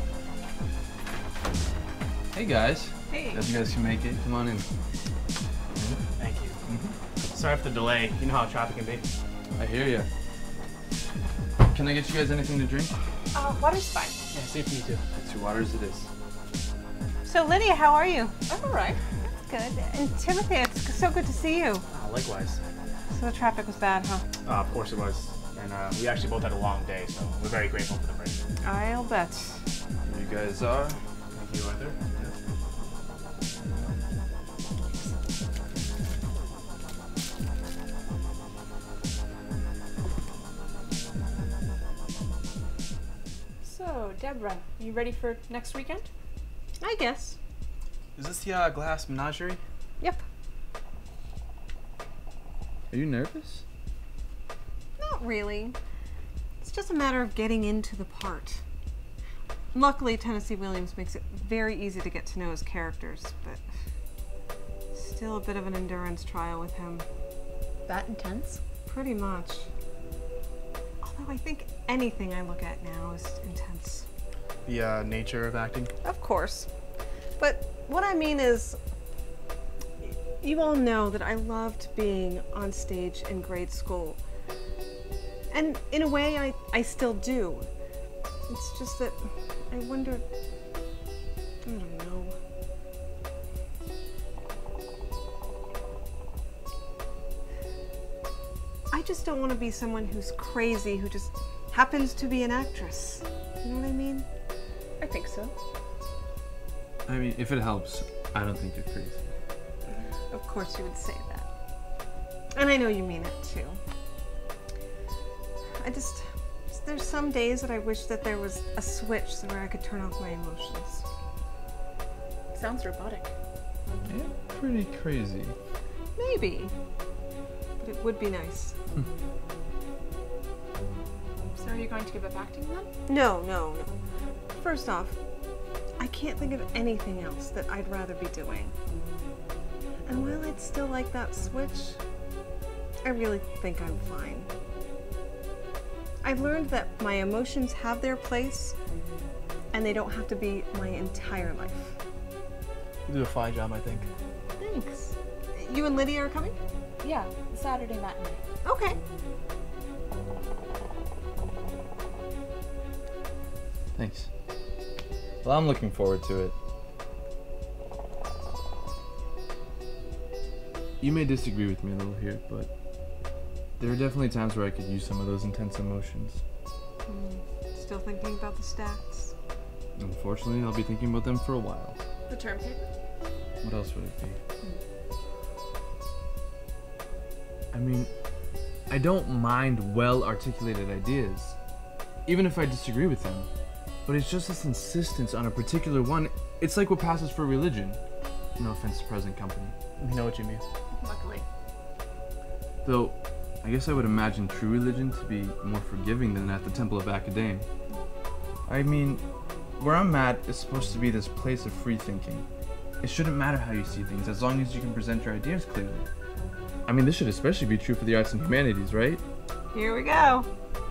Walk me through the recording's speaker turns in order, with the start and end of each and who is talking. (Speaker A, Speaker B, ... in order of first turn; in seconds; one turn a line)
Speaker A: 2.3-4.7
Speaker B: 3.1-3.4
Speaker C: 6.2-6.6
Speaker A: 6.7-6.9
Speaker C: 7.3-9.1
Speaker A: 9.6-10.1
Speaker A: 11.6-12.9
Speaker D: 13.3-14.2
Speaker C: 14.3-15.0
Speaker A: 15.1-16.1
Speaker B: 17.2-18.4
Speaker D: 18.5-19.0
Speaker B: 19.2-21.9
Speaker C: 21.9-22.6
Speaker B: 23.1-24.2
Speaker C: 24.4-28.4
Speaker B: 28.6-29.6
Speaker A: 30.0-31.0
Speaker C: 31.3-32.3
Speaker D: 34.9-35.1
Speaker D: 43.6-46.1
Speaker B: 46.8-47.4
Speaker C: 48.2-49.6
Speaker A: 52.9-53.6
Speaker B: 55.0-55.8
Speaker B: 56.6-58.6
Speaker B: 59.7-63.6
Speaker B: 64.9-67.0
Speaker D: 67.9-68.6
Speaker B: 68.9-69.7
Speaker B: 71.0-74.0
Speaker C: 74.7-75.9
Speaker B: 76.0-76.7
Speaker B: 77.4-78.8
Speaker B: 80.0-84.2
Speaker B: 85.5-87.7
Speaker B: 88.5-90.2
Speaker B: 91.6-92.3
Speaker B: 98.9-104.2
Speaker D: 105.0-105.5
Speaker A: 107.1-109.3
Speaker B: 110.3-111.5
Speaker B: 112.5-113.8
Speaker B: 115.8-121.0
Speaker D: 122.5-123.3
Speaker A: 124.0-125.6
Speaker B: 126.2-126.7
Speaker B: 127.8-128.8
Speaker D: 131.5-132.9
Speaker B: 133.1-133.9
Speaker B: 134.5-135.2
Speaker B: 136.0-138.7
Speaker B: 140.1-142.0
Speaker B: 143.0-144.5
Speaker B: 146.2-148.8
Speaker B: 149.7-151.9
Speaker C: 153.1-154.1
Speaker B: 154.6-156.6
Speaker D: 157.0-158.4
Speaker B: 158.6-159.0
Speaker A: 163.9-164.3
Speaker A: 165.4-166.5
Speaker A: 171.0-172.7
Speaker A: 173.8-176.4
Speaker B: 177.1-179.3
Speaker A: 180.0-182.0
Speaker D: 182.3-182.8
Speaker A: 183.6-184.4
Speaker A: 187.7-188.1
Speaker A: 188.9-191.6
Speaker A: 192.3-193.5
Speaker A: 194.1-198.0
Speaker A: 198.6-199.8
Speaker C: 200.0-200.6
Speaker D: 200.9-201.4
Speaker A: 202.8-207.7
Speaker A: 208.7-209.2
Speaker A: 209.8-212.4
Speaker A: 213.0-216.1
Speaker A: 216.9-219.2
Speaker B: 219.7-220.5